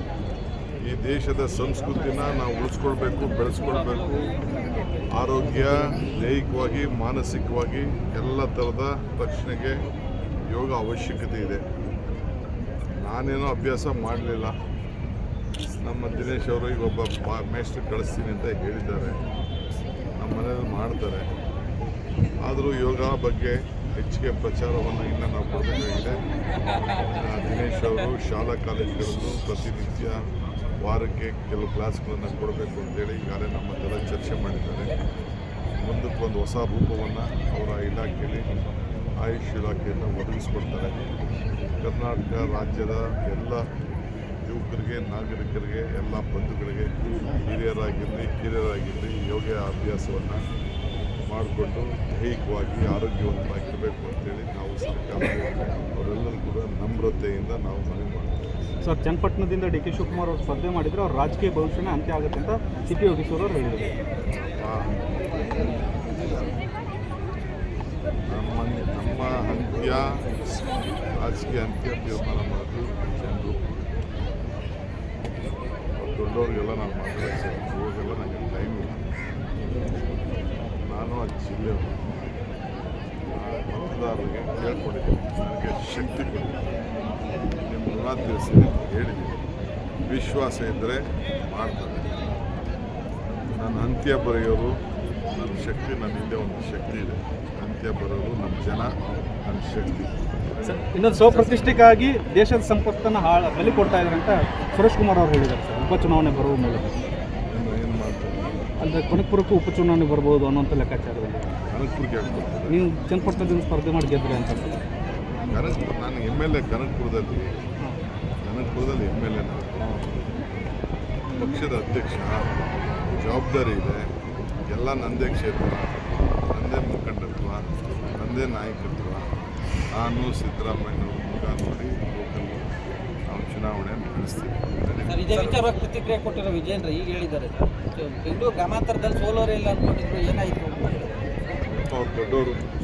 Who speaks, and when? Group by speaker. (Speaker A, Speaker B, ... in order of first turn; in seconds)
Speaker A: 0.8-4.3, 5.2-9.8, 10.5-11.6, 13.0-14.6, 15.8-19.2, 20.2-21.3, 22.4-26.2, 27.1-30.2, 30.8-34.9, 35.8-38.5, 39.2-41.1, 41.8-43.6, 44.5-50.4, 51.3-58.4, 64.3-65.7, 68.3-70.1, 71.2-73.7, 76.0-79.0, 80.9-82.0, 83.3-86.7, 87.5-89.4, 90.1-92.2, 93.6-94.7, 95.3-101.8, 107.5-108.6, 111.7-112.8, 115.5-117.5, 118.4-120.1, 121.3-122.5, 123.1-124.1, 124.7-127.6, 128.1-129.3, 129.9-132.6, 133.3-135.8, 141.7-142.6
Speaker B: 58.8-63.9, 100.6-106.9, 108.8-111.5, 112.7-114.8
Speaker C: 135.1-141.0